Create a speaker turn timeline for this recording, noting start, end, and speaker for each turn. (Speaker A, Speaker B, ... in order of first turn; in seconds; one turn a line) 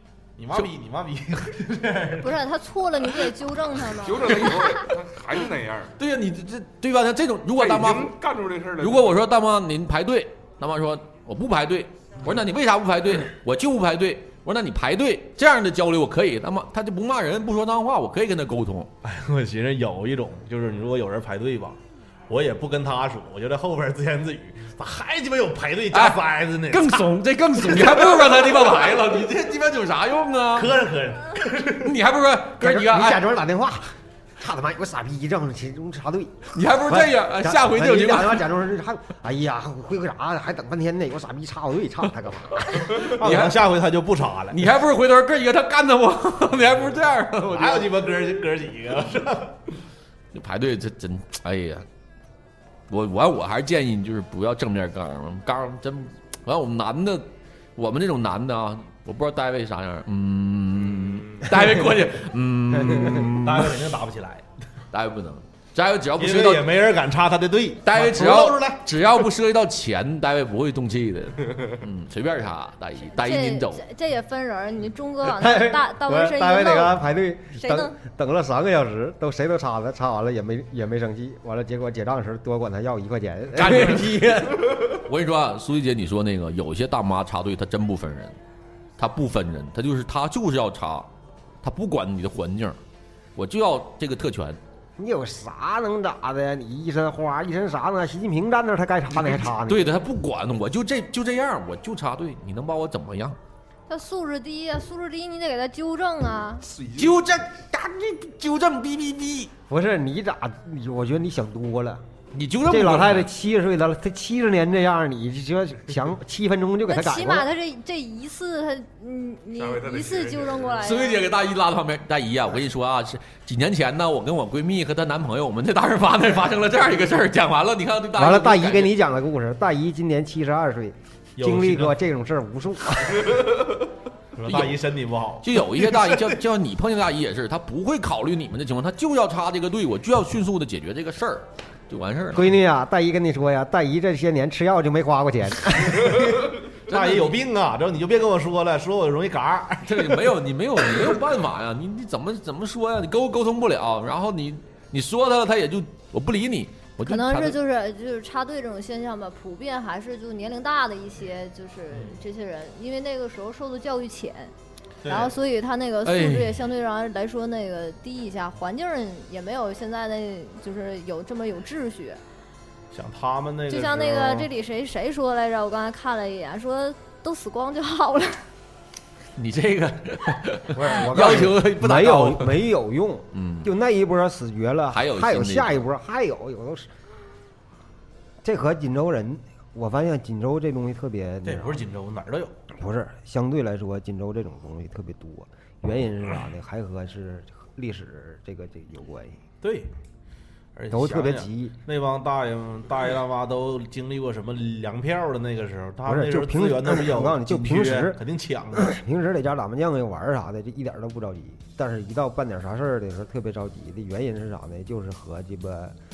Speaker A: 0.4-2.4
Speaker B: 2.2-4.9
Speaker C: 4.0-5.9
Speaker D: 6.0-8.1
Speaker C: 7.5-9.2
Speaker D: 8.8-18.9
Speaker A: 19.0-21.8
Speaker A: 22.3-29.1
Speaker D: 25.9-30.7
Speaker A: 30.5-31.9
Speaker D: 31.8-33.3
Speaker E: 32.6-43.0
Speaker D: 36.5-38.5
Speaker D: 42.7-43.6
Speaker A: 42.9-44.6
Speaker D: 44.5-47.9
Speaker A: 47.5-49.6
Speaker D: 50.3-51.9
Speaker D: 52.9-63.7
Speaker A: 63.3-64.4
Speaker D: 64.9-66.7
Speaker A: 66.2-68.8
Speaker D: 67.8-73.8
Speaker B: 73.0-77.0
Speaker E: 75.4-84.8
Speaker B: 77.5-77.9
Speaker D: 83.5-84.3
Speaker D: 84.9-88.3
Speaker D: 89.0-91.1
Speaker D: 91.6-92.8
Speaker D: 93.3-94.6
Speaker E: 95.0-100.0
Speaker D: 99.2-103.4
Speaker B: 103.9-106.6
Speaker D: 106.9-109.5
Speaker E: 109.7-112.0
Speaker D: 112.3-113.3
Speaker E: 112.7-117.5
Speaker B: 116.9-121.2
Speaker C: 119.6-120.7
Speaker D: 120.8-128.9
Speaker E: 128.1-133.4
Speaker A: 131.4-131.9
Speaker A: 134.3-136.3
Speaker D: 134.5-134.8
Speaker D: 135.4-142.5
Speaker E: 142.3-146.3
Speaker A: 145.9-150.3
Speaker D: 146.9-147.4
Speaker D: 149.8-157.6
Speaker B: 157.0-164.5
Speaker A: 165.0-165.3
Speaker B: 165.1-172.2
Speaker D: 166.0-166.6
Speaker A: 172.9-174.5
Speaker B: 173.7-178.4
Speaker D: 179.4-182.7
Speaker E: 180.7-186.9
Speaker D: 183.3-183.7
Speaker D: 184.9-185.8
Speaker E: 188.4-191.8
Speaker A: 191.4-192.5
Speaker E: 192.7-199.4
Speaker A: 199.6-199.9
Speaker A: 200.7-208.9
Speaker E: 200.9-201.8
Speaker E: 206.1-208.2
Speaker E: 208.8-215.9